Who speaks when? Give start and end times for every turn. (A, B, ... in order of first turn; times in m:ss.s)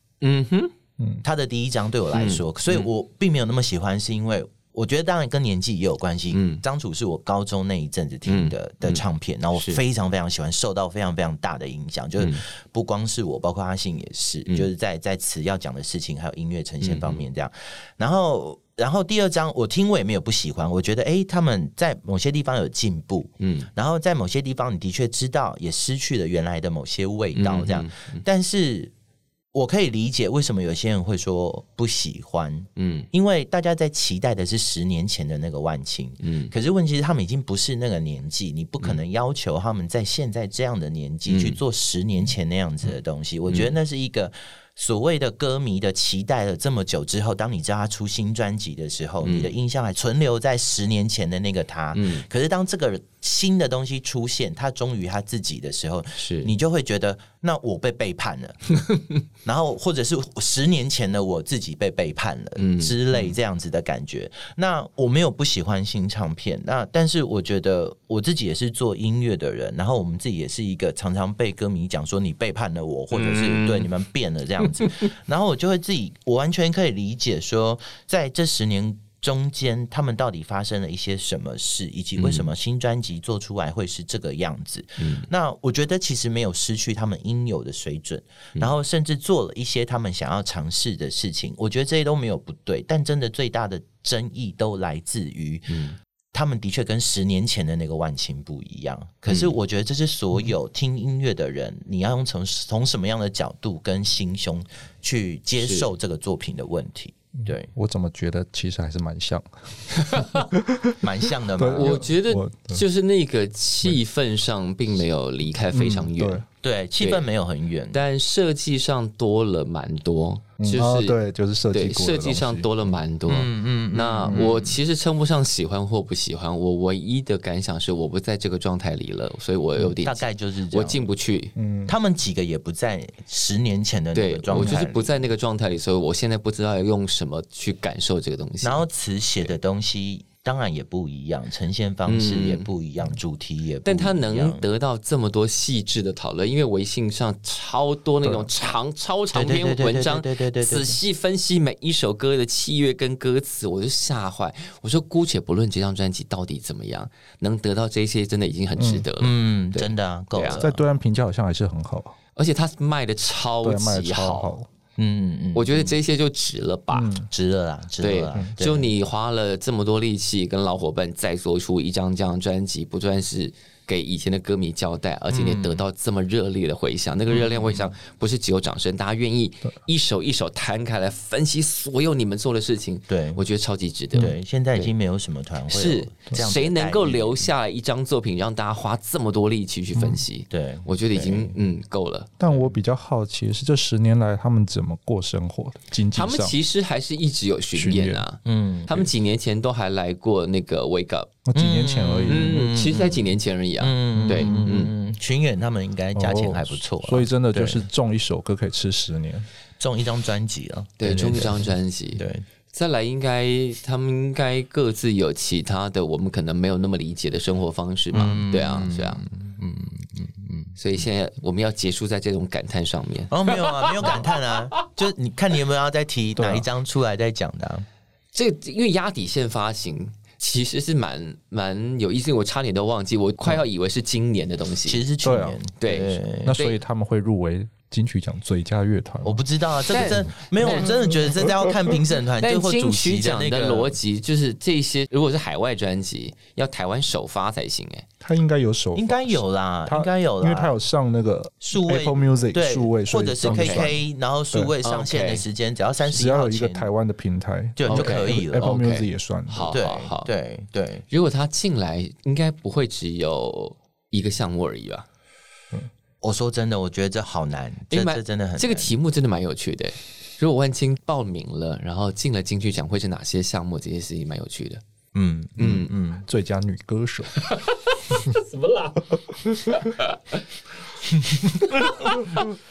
0:00.2-0:00.7 A
0:01.2-0:28.9 B
0:02.1-0:02.9 A
0:06.3-0:06.6 A
0:08.3-0:09.0 A
0:09.5-0:09.8 A
0:16.8-0:17.2 A
0:23.4-0:23.7 A
0:27.3-0:28.2 A
0:29.5-0:58.7 B
0:32.8-0:33.1 A
0:36.2-0:36.5 A
0:41.3-0:41.6 A
0:43.5-0:43.7 A
0:49.2-0:49.5 A
0:51.9-0:52.2 A
0:56.2-0:56.5 A
0:59.4-1:35.8 B
1:02.6-1:03.4 A
1:13.1-1:13.9 A
1:22.2-1:22.5 A
1:25.0-1:25.3 A
1:35.7-1:36.0 A
1:36.3-1:47.7 B
1:39.3-1:39.5 A
1:45.6-1:45.9 A
1:47.4-1:52.8 C
1:50.0-1:50.5 A
1:51.0-1:52.0 B
1:51.8-1:56.4 A
1:55.7-1:56.4 C
1:56.6-1:58.0 B
1:57.9-2:01.2 A
2:00.6-2:02.7 C
2:01.7-2:11.5 A
2:03.3-2:04.8 B
2:10.0-2:11.1 B
2:11.6-2:11.9 C
2:11.9-2:15.3 B
2:14.1-2:18.8 A
2:14.5-2:14.8 C
2:18.6-2:24.6 B
2:22.1-2:22.7 A
2:23.8-2:40.7 A
2:29.3-2:31.0 B
2:38.8-2:39.0 C
2:39.2-2:40.7 B
2:40.6-2:42.1 C
2:42.4-2:44.5 A
2:43.6-2:44.7 C
2:45.0-2:45.9 B
2:45.5-2:47.2 A
2:46.9-2:47.3 C
2:47.3-2:48.9 B
2:48.0-3:04.9 A
2:55.3-2:55.8 B
2:57.3-2:57.9 B
3:03.1-3:03.4 B
3:04.1-3:07.5 B
3:05.7-3:12.4 A
3:10.5-3:11.5 B
3:12.4-3:16.6 C
3:16.1-3:21.3 A
3:17.7-3:18.2 C
3:18.4-3:19.1 B
3:21.4-3:22.6 C
3:21.5-3:23.2 B
3:22.3-3:24.9 A
3:23.8-3:27.8 B
3:24.2-3:24.7 C
3:26.1-3:29.5 C
3:29.8-3:32.4 B
3:31.0-3:39.2 A
3:38.1-3:40.7 B
3:40.8-3:44.8 A
3:43.3-3:47.8 B
3:46.4-3:46.6 C
3:48.3-3:55.0 A
3:54.8-3:56.6 B
3:55.2-3:55.6 C
3:55.8-3:56.8 A
3:56.4-4:00.1 C
3:59.2-4:03.9 B
3:59.9-4:01.0 A
4:02.4-4:08.1 A
4:08.2-4:14.7 C
4:08.9-4:10.7 B
4:11.6-4:16.9 B
4:13.4-4:13.9 A
4:14.8-4:15.4 A
4:16.0-4:19.7 C
4:17.8-4:18.8 B
4:17.9-4:20.3 A
4:19.7-4:21.0 B
4:21.1-4:25.0 A
4:26.2-4:28.9 B
4:27.9-4:34.8 A
4:35.1-4:36.2 B
4:35.6-4:35.9 A
4:36.2-4:37.4 C
4:37.4-4:40.4 A
4:41.1-4:42.2 B